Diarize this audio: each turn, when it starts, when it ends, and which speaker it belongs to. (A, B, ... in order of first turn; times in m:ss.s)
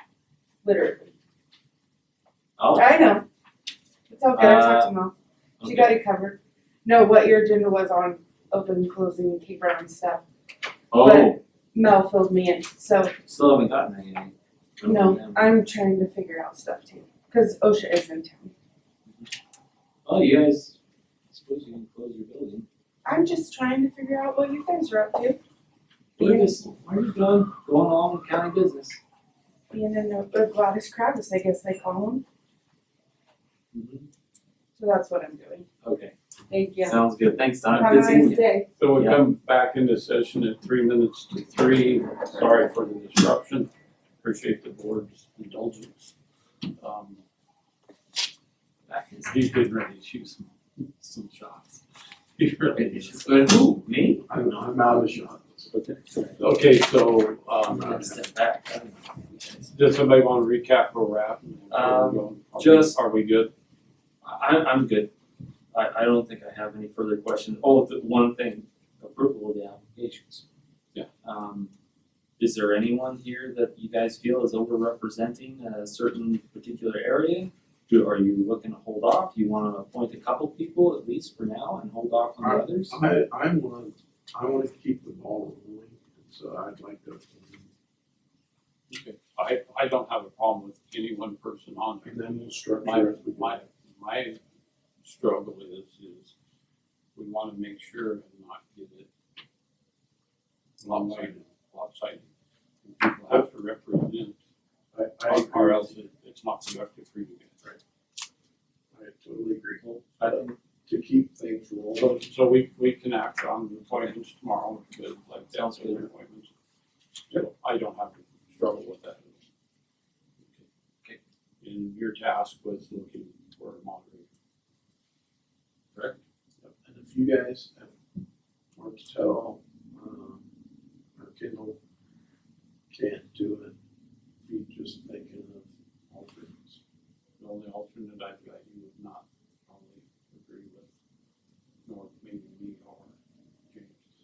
0:00.6-0:01.1 A
0:02.6-0:03.0 B
0:02.7-0:03.2 A
0:04.1-0:10.2 A
0:04.3-0:05.0 B
0:05.6-0:06.0 B
0:10.9-0:11.4 B
0:10.9-0:13.1 A
0:13.2-0:15.5 B
0:14.8-0:18.5 A
0:20.0-0:20.8 B
0:21.3-0:22.7 B
0:23.0-0:25.4 A
0:26.2-0:29.0 B
0:26.2-0:26.5 A
0:29.7-0:32.2 A
0:33.7-0:34.1 B
0:34.8-0:35.7 A
0:35.8-0:36.1 B
0:36.5-0:37.0 A
0:36.8-0:39.2 B
0:37.7-0:38.7 A
0:38.8-0:43.7 C
0:44.2-0:46.1 C
0:46.8-0:47.2 C
0:48.9-0:49.6 B
0:49.3-0:50.5 C
0:51.0-0:51.8 B
0:52.4-0:53.2 C
0:52.7-0:54.8 B
0:54.3-0:55.7 D
0:55.7-0:56.4 B
0:56.4-0:57.9 C
0:57.7-0:58.2 D
0:57.7-0:59.7 B
0:59.6-1:03.5 C
1:01.7-1:03.0 B
1:04.2-1:05.1 B
1:05.7-1:10.4 B
1:11.2-1:11.7 B
1:12.4-1:23.0 B
1:22.4-1:27.7 D
1:28.9-1:34.4 C
1:32.0-1:33.6 D
1:35.0-1:36.3 C
1:37.2-1:39.1 C
1:40.8-1:42.3 C
1:40.9-1:41.4 D
1:42.8-1:44.4 C
1:44.9-1:46.0 D
1:45.3-1:47.6 C
1:48.9-1:52.2 D
1:50.2-1:50.6 B
1:52.0-1:56.5 C
1:55.5-1:56.0 B
1:57.3-1:59.4 C
2:01.6-2:04.3 C
2:06.6-2:07.9 D
2:08.8-2:10.4 D
2:11.2-2:11.8 D
2:12.9-2:13.8 D
2:14.5-2:16.8 D
2:17.4-2:20.9 C
2:21.9-2:23.1 C
2:23.7-2:24.0 C